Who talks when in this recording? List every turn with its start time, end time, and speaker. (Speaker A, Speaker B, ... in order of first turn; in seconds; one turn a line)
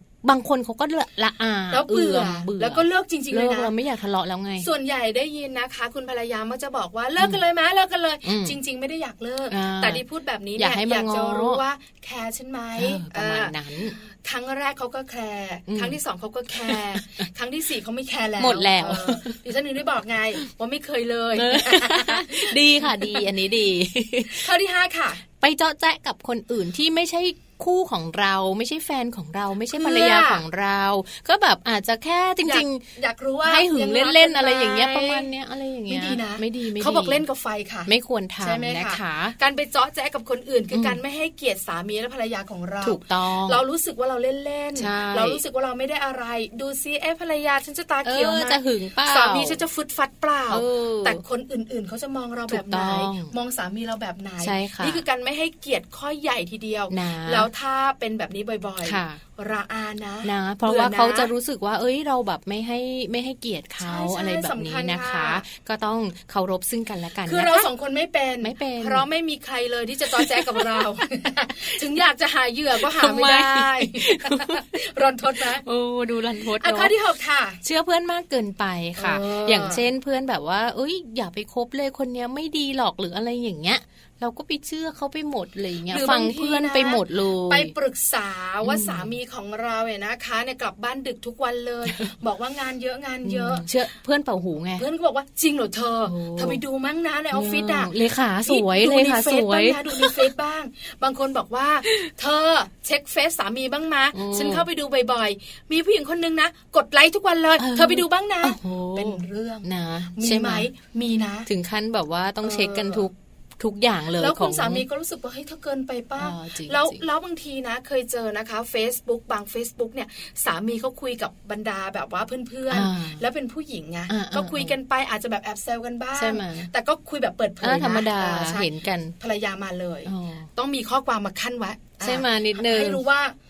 Speaker A: 0.2-4.7
Speaker B: 1.7-3.7
Speaker B: 4.6-23.2
Speaker A: 8.2-8.6
Speaker A: 9.5-10.0
Speaker A: 10.6-11.6
Speaker A: 12.8-14.0
Speaker A: 15.7-16.0
Speaker A: 16.6-17.0
Speaker A: 18.4-19.4
Speaker A: 21.4-24.5
Speaker B: 24.4-25.2
Speaker A: 25.4-32.9
Speaker B: 29.7-30.4
Speaker B: 32.5-35.3
Speaker A: 33.5-37.2
Speaker B: 35.9-37.9
Speaker A: 37.9-39.4
Speaker B: 38.4-61.3
Speaker A: 40.7-41.0
Speaker A: 42.8-43.6
Speaker A: 44.8-45.4
Speaker A: 48.0-49.6
Speaker A: 50.5-51.2
Speaker A: 52.5-53.3
Speaker A: 54.4-55.0
Speaker A: 56.9-57.5
Speaker A: 58.8-59.2
Speaker A: 60.2-67.7
Speaker B: 63.8-65.4
Speaker B: 67.3-75.6
Speaker A: 68.4-69.1
Speaker A: 70.2-70.9
Speaker A: 72.9-74.7
Speaker A: 75.6-76.9
Speaker B: 76.6-77.6
Speaker A: 77.6-87.7
Speaker B: 79.0-79.8
Speaker B: 85.9-93.7
Speaker A: 88.6-89.1
Speaker A: 93.2-94.8
Speaker B: 94.8-97.9
Speaker A: 96.1-96.6
Speaker A: 97.3-100.3
Speaker B: 98.5-111.5
Speaker A: 104.2-104.7
Speaker A: 107.6-110.7
Speaker A: 111.5-114.8
Speaker B: 112.4-113.1
Speaker B: 114.2-128.7
Speaker A: 116.2-117.0
Speaker A: 122.7-123.2
Speaker A: 124.1-124.8
Speaker A: 126.2-126.7
Speaker A: 127.6-129.2
Speaker B: 129.2-133.4
Speaker A: 130.1-130.5
Speaker A: 132.0-133.0